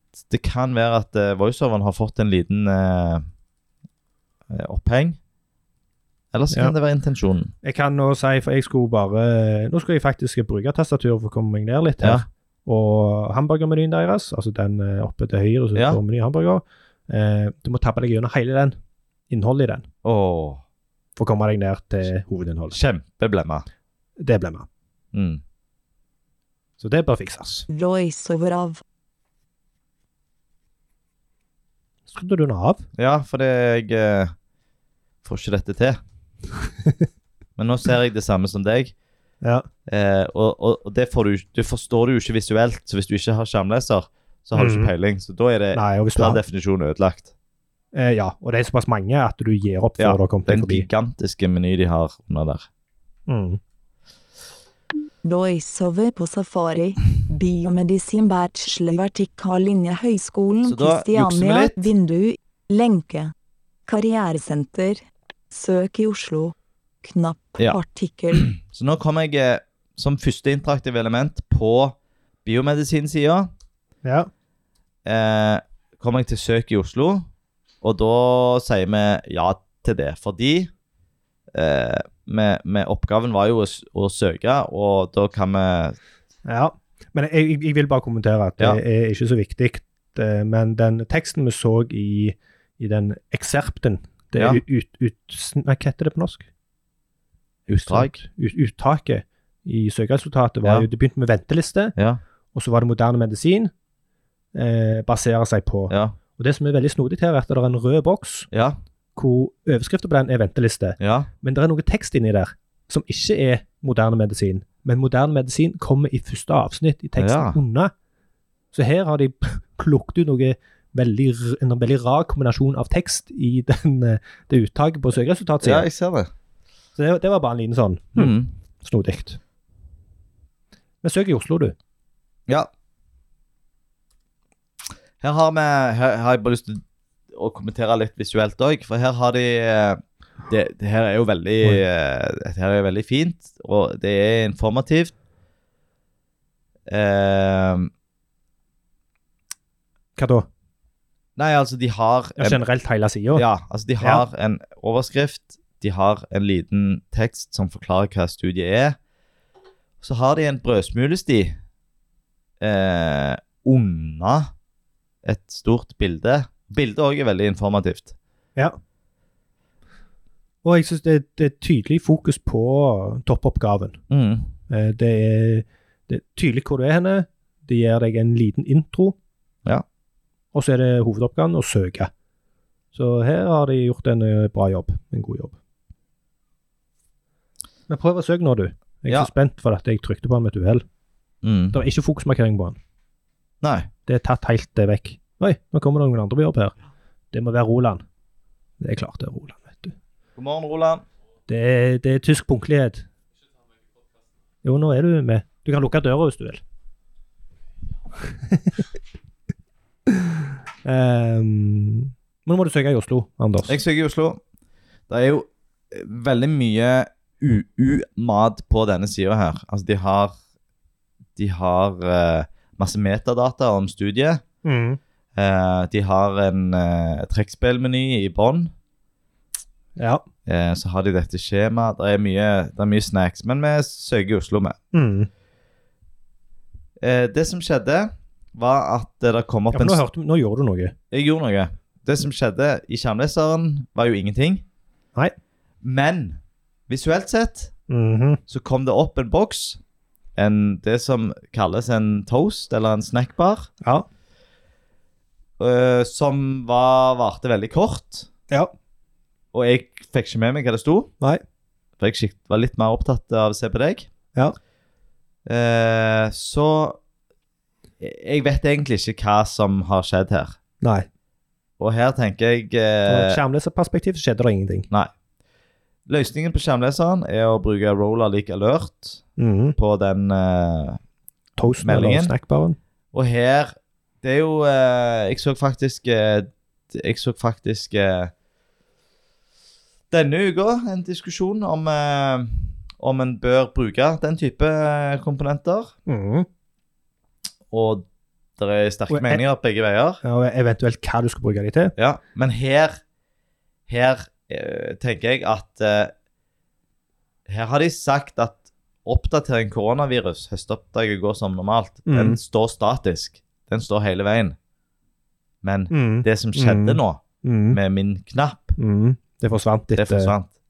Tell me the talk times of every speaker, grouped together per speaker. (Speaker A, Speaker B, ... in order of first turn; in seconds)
Speaker A: 0.2-3.2, 4.5-5.2, 6.3-7.5, 12.0-12.2, 20.0-20.6, 22.7-23.6, 25.1-25.4, 33.0-34.3, 35.2-36.0, 37.6-38.9, 39.9-47.3, 50.0-52.7, 60.6-61.9, 68.3-73.5, 75.0-77.3, 77.8-80.7, 81.5-86.0, 94.3-94.6, 97.7-98.2, 105.9-106.2, 108.5-108.8, 111.0-111.3, 117.2-117.6, 125.6-126.3, 128.2-128.5, 135.2-145.1, 146.9-147.9, 151.4-152.6, 153.3-159.0, 160.0-161.6, 162.6-164.5, 165.2-168.1, 174.1-174.5, 191.4-191.8, 193.6-193.9, 200.3-201.0, 213.7-214.4, 215.1-220.3, 221.3-224.4, 225.3-228.7, 230.4-234.8, 237.0-240.0, 241.1-244.6, 245.8-247.7, 248.5-249.8, 250.3-253.7, 255.6-258.3, 259.5-261.1, 262.0-264.1, 265.4-267.0, 268.0-270.6, 271.8-273.4, 276.1-279.2, 279.8-281.0, 281.8-282.3, 283.1-288.3, 290.1-295.9, 297.7-298.1, 298.6-300.2, 302.0-303.0, 303.9-306.1, 307.5-314.6, 315.6-318.8, 319.9-320.5
Speaker B: 7.6-18.8, 19.3-19.9, 21.2-22.8, 24.2-24.7, 26.8-27.6, 32.1-32.9, 44.5-44.9, 45.7-46.4, 47.9-50.9, 53.3-53.6, 74.0-74.3, 86.5-96.5, 97.7-102.0, 102.5-103.7, 104.5-108.5, 109.2-117.9, 118.7-125.9, 127.0-129.4, 131.0-131.7, 150.2-150.5, 152.4-153.4, 170.6-174.0, 174.7-179.2, 180.5-182.1, 182.9-185.6, 187.9-190.8, 191.7-192.8, 194.1-196.7, 197.3-198.0, 198.8-199.9, 201.5-203.1, 204.6-206.6, 208.3-208.8, 210.8-213.8, 224.6-225.0, 230.0-230.2, 234.9-235.3, 239.7-240.9, 247.9-248.4, 270.8-271.1, 273.1-274.9, 279.4-279.8, 281.6-282.8, 296.1-296.5, 299.1-299.4, 300.2-301.9, 312.1-312.4, 315.9-317.8, 318.8-320.3
Speaker C: 27.7-28.8, 55.2-63.3, 63.9-68.5